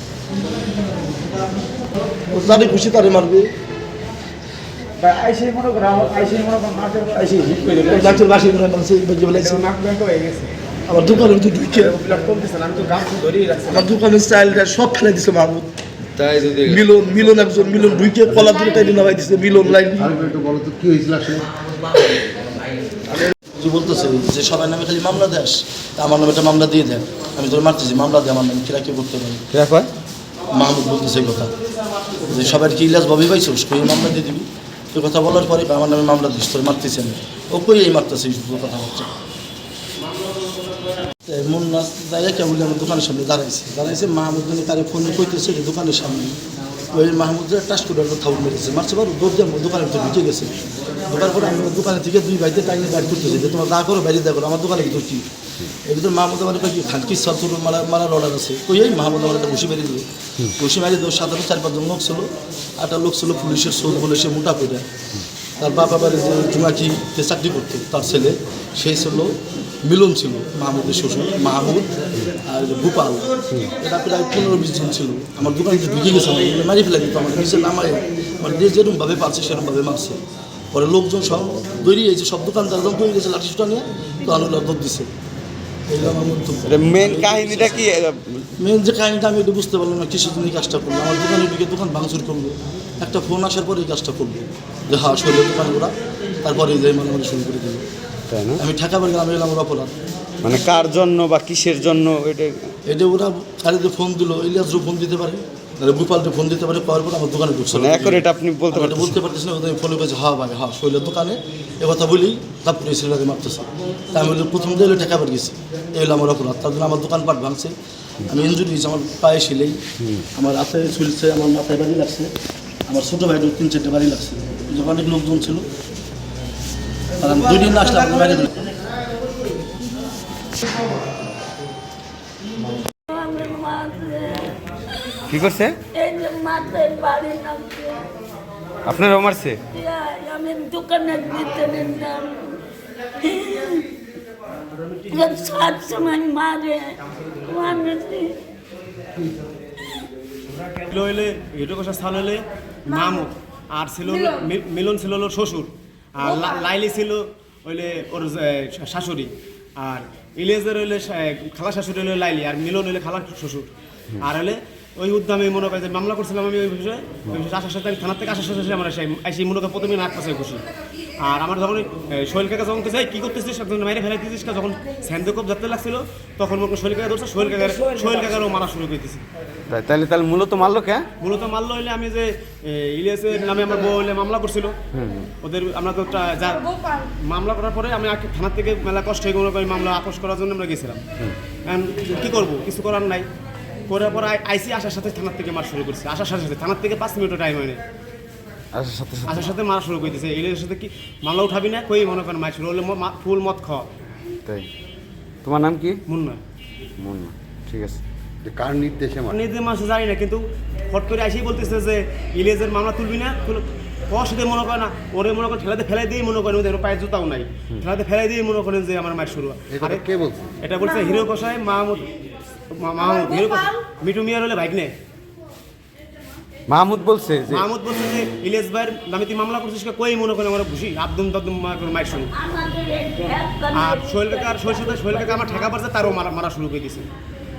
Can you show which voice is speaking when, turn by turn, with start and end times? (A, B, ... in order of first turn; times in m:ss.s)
0:02.3-0:03.5 A
0:05.0-0:08.3 B
0:07.8-0:09.6 A
0:09.3-0:10.5 B
0:10.9-0:11.9 A
0:11.8-0:13.9 B
0:13.7-0:15.7 A
0:16.2-0:16.7 C
0:16.6-0:20.2 A
0:20.2-0:21.4 D
0:23.6-0:29.4 A
0:29.5-0:29.9 C
0:30.5-0:31.5 A
0:32.2-0:39.1 A
0:41.2-0:46.4 A
0:46.9-0:50.5 A
0:51.0-0:55.2 A
0:55.8-1:04.9 A
1:05.6-1:20.2 A
1:20.7-1:25.1 A
1:25.9-1:27.9 A
1:26.7-1:28.4 C
1:28.6-1:35.9 A
1:36.4-1:37.8 A
1:38.3-1:38.6 C
1:38.6-1:39.9 A
1:40.4-1:42.6 C
1:42.9-2:02.3 A
1:47.8-1:49.1 C
2:02.9-2:05.7 A
2:07.2-2:08.7 A
2:12.9-2:15.0 E
2:15.3-2:15.8 C
2:15.9-2:18.1 E
2:18.8-2:19.6 C
2:19.7-2:22.6 E
2:23.2-2:23.9 E
2:25.1-2:28.4 E
2:30.8-2:50.6 B
2:51.2-2:59.2 B
2:59.7-3:01.1 C
3:01.2-3:04.8 B
3:05.0-3:05.3 C
3:05.4-3:11.0 B
3:11.6-3:13.3 B
3:13.9-3:17.8 B
3:18.7-3:19.4 C
3:19.2-3:23.9 B
3:25.4-3:26.0 C
3:26.1-3:26.4 B
3:27.0-3:28.0 C
3:28.4-3:29.3 D
3:28.6-3:29.3 C
3:29.3-3:40.0 B
3:39.8-3:40.5 D
3:40.6-3:42.1 B
3:42.7-3:44.9 B
3:43.1-3:43.7 E
3:46.7-3:47.6 C
3:47.4-3:52.3 B
3:52.3-3:55.9 E
3:53.7-3:57.1 B